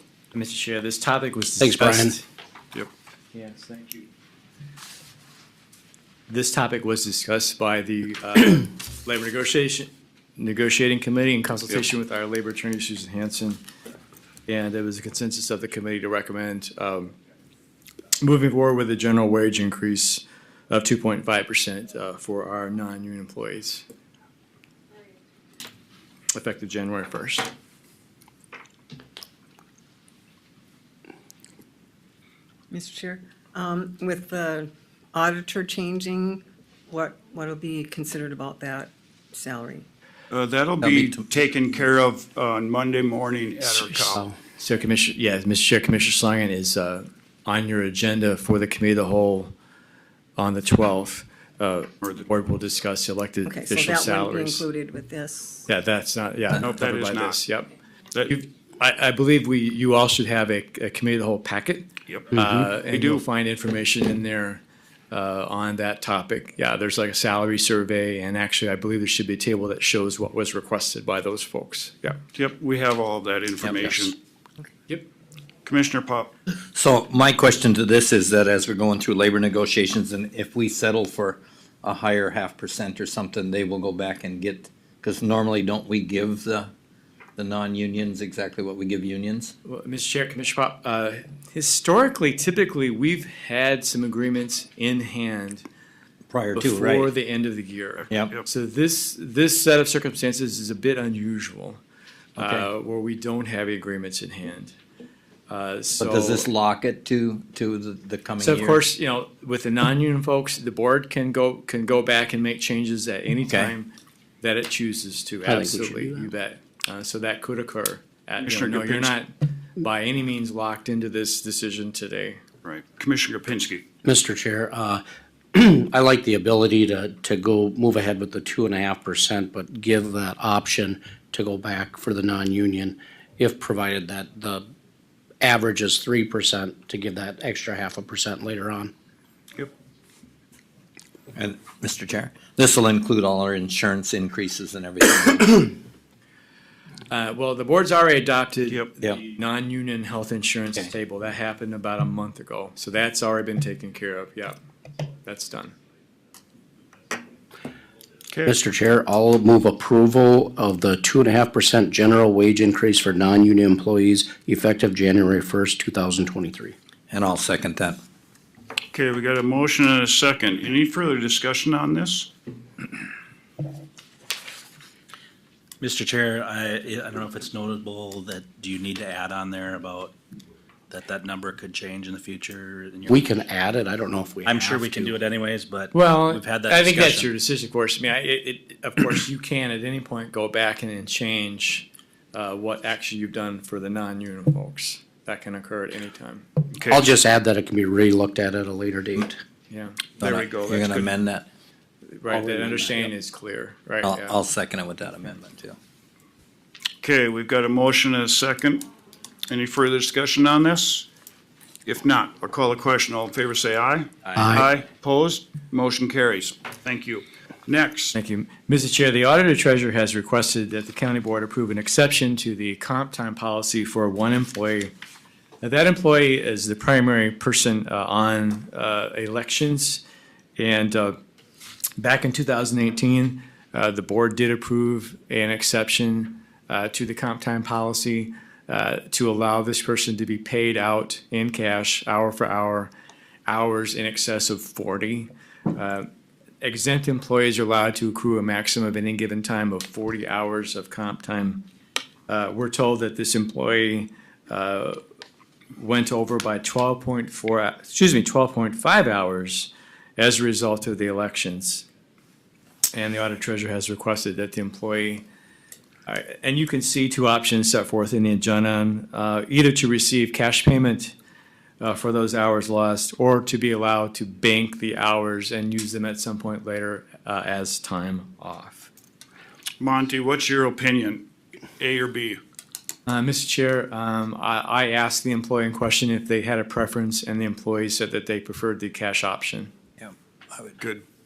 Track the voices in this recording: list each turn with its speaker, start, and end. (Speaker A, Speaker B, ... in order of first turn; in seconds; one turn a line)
Speaker A: 0.3-2.2
Speaker B: 1.6-2.2
Speaker A: 3.3-4.1
Speaker A: 6.3-13.6
Speaker A: 14.5-17.1
Speaker A: 18.2-23.8
Speaker A: 26.3-27.5
Speaker C: 32.7-39.9
Speaker D: 40.3-44.2
Speaker E: 40.8-41.2
Speaker A: 43.7-49.5
Speaker A: 50.4-54.6
Speaker C: 53.5-55.7
Speaker A: 55.7-57.7
Speaker D: 56.6-57.4
Speaker A: 58.3-72.2
Speaker D: 62.1-62.3
Speaker B: 62.3-62.7
Speaker D: 62.9-63.2
Speaker D: 72.3-74.2
Speaker D: 75.6-76.3
Speaker E: 76.7-86.7
Speaker E: 87.4-89.5
Speaker A: 89.6-95.6
Speaker E: 96.3-97.1
Speaker A: 96.5-101.8
Speaker A: 102.4-104.8
Speaker A: 105.5-106.5
Speaker E: 106.0-108.8
Speaker A: 108.4-113.9
Speaker A: 114.4-122.4
Speaker B: 115.4-116.3
Speaker D: 118.4-119.1
Speaker D: 122.6-123.8
Speaker B: 124.0-125.0
Speaker B: 125.5-134.7
Speaker B: 135.4-138.9
Speaker E: 141.3-145.7
Speaker A: 147.1-154.6
Speaker A: 155.2-155.8
Speaker B: 158.5-166.7
Speaker E: 167.1-168.0
Speaker D: 168.9-172.3
Speaker F: 175.8-180.2
Speaker F: 180.9-183.2
Speaker B: 183.1-185.2
Speaker F: 184.5-187.3
Speaker A: 185.9-196.5
Speaker D: 196.8-197.0
Speaker B: 196.8-199.4
Speaker A: 199.7-200.0
Speaker D: 200.2-201.0
Speaker E: 200.2-201.5
Speaker A: 202.1-204.3
Speaker B: 202.3-203.1
Speaker E: 204.0-205.8
Speaker D: 207.0-208.8
Speaker D: 209.5-211.1
Speaker D: 211.8-218.2
Speaker B: 214.3-214.7
Speaker A: 218.2-224.9
Speaker A: 225.6-230.0
Speaker A: 230.6-231.2
Speaker A: 232.0-242.9
Speaker A: 243.5-246.1
Speaker A: 246.6-251.7
Speaker A: 252.3-255.0
Speaker A: 255.8-261.9
Speaker A: 262.9-265.2
Speaker A: 266.1-271.1
Speaker A: 271.8-278.9
Speaker D: 279.8-281.3
Speaker D: 281.8-282.4
Speaker A: 283.1-289.7
Speaker E: 290.0-290.8